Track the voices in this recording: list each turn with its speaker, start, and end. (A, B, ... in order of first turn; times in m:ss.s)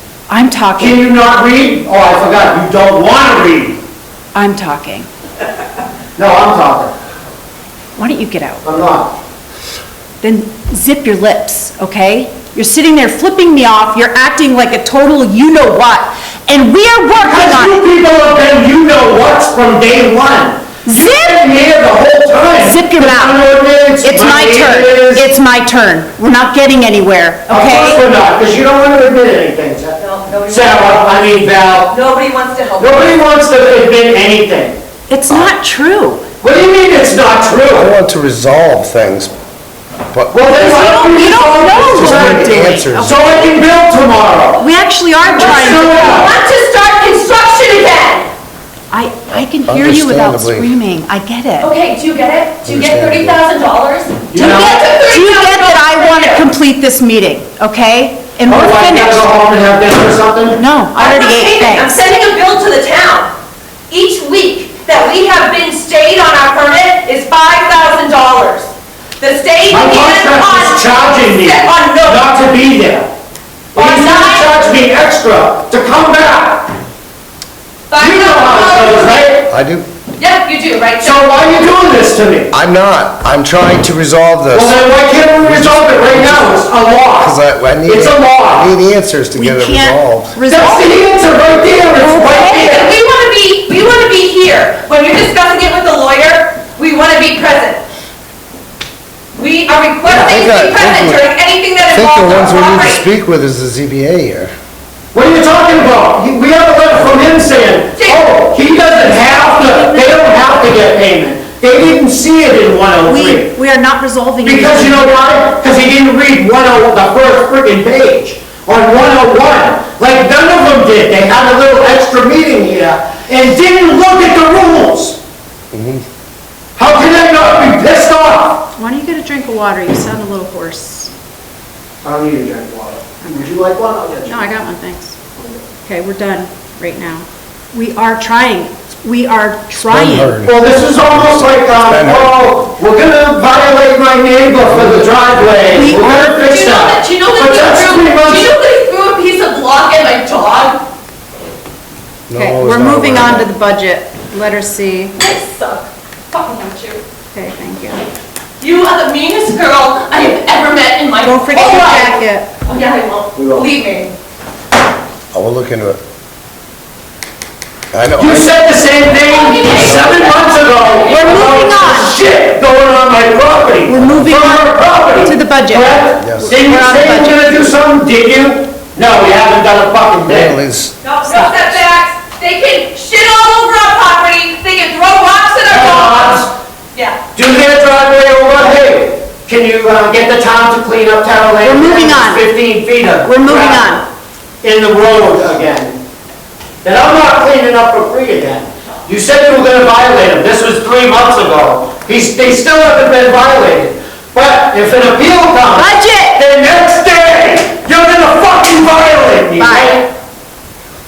0:00.3-0:01.0 A
0:00.8-0:03.8 B
0:04.3-0:05.1 A
0:06.2-0:06.9 B
0:08.0-0:08.6 A
0:08.6-0:09.2 B
0:10.2-0:17.8 A
0:17.2-0:25.3 B
0:20.9-0:21.4 A
0:22.5-0:23.4 A
0:24.0-0:28.0 A
0:27.5-0:32.0 B
0:30.0-0:31.3 C
0:31.8-0:33.2 C
0:32.8-0:34.8 B
0:35.1-0:36.2 A
0:36.4-0:37.9 B
0:37.7-0:39.3 D
0:40.1-0:40.5 D
0:40.3-0:44.6 B
0:40.5-0:43.3 A
0:41.9-0:43.4 D
0:44.6-0:46.3 A
0:45.2-0:48.3 C
0:45.3-0:46.3 B
0:48.9-0:51.7 A
0:49.6-0:50.7 D
0:51.6-0:56.4 C
0:52.6-0:53.4 D
0:54.3-0:54.8 B
0:54.4-0:59.3 A
0:58.4-1:00.6 B
1:00.6-1:02.0 A
1:00.9-1:03.3 C
1:03.9-1:12.2 C
1:09.7-1:13.1 B
1:13.7-1:16.7 B
1:13.7-1:14.6 C
1:17.9-1:19.3 C
1:18.0-1:19.5 B
1:19.5-1:19.9 D
1:20.2-1:21.2 C
1:21.0-1:22.5 B
1:22.5-1:24.8 D
1:24.5-1:27.3 B
1:25.4-1:26.6 D
1:27.2-1:30.4 D
1:27.8-1:28.7 B
1:29.4-1:31.0 A
1:30.5-1:32.9 B
1:32.0-1:32.6 A
1:32.3-1:37.8 C
1:39.3-1:43.0 C
1:40.1-1:41.3 D
1:41.9-1:44.5 D
1:45.1-1:53.5 B
1:48.0-1:48.2 C
1:49.6-1:50.2 A
1:53.1-1:55.0 A
1:54.4-2:05.2 B
2:05.7-2:06.0 D
2:06.8-2:08.7 B
2:08.8-2:11.1 A
2:12.0-2:14.5 B
2:13.2-2:13.5 A
2:14.3-2:15.2 A
2:15.8-2:20.4 A
2:19.8-2:22.6 D
2:20.4-2:28.5 B
2:24.6-2:25.1 D
2:25.7-2:26.4 A
2:26.4-2:30.8 C
2:32.3-2:33.5 D
2:32.3-2:35.2 A
2:35.2-2:37.0 C
2:37.3-2:38.1 A
2:38.6-2:44.1 C
2:41.2-2:42.5 A
2:43.4-2:43.7 B
2:45.3-2:46.0 D
2:47.9-2:48.5 D
2:48.2-3:00.6 B
2:49.1-2:51.2 C
2:51.1-2:52.1 A
2:53.9-2:57.5 A
2:56.2-2:56.6 D
3:00.2-3:01.0 D
3:01.0-3:07.2 C
3:01.3-3:01.7 A
3:05.7-3:06.5 B
3:07.3-3:14.0 B
3:11.6-3:12.5 A
3:13.2-3:14.0 A
3:14.6-3:16.0 B
3:16.8-3:30.1 B
3:25.7-3:26.4 A
3:29.6-3:30.0 A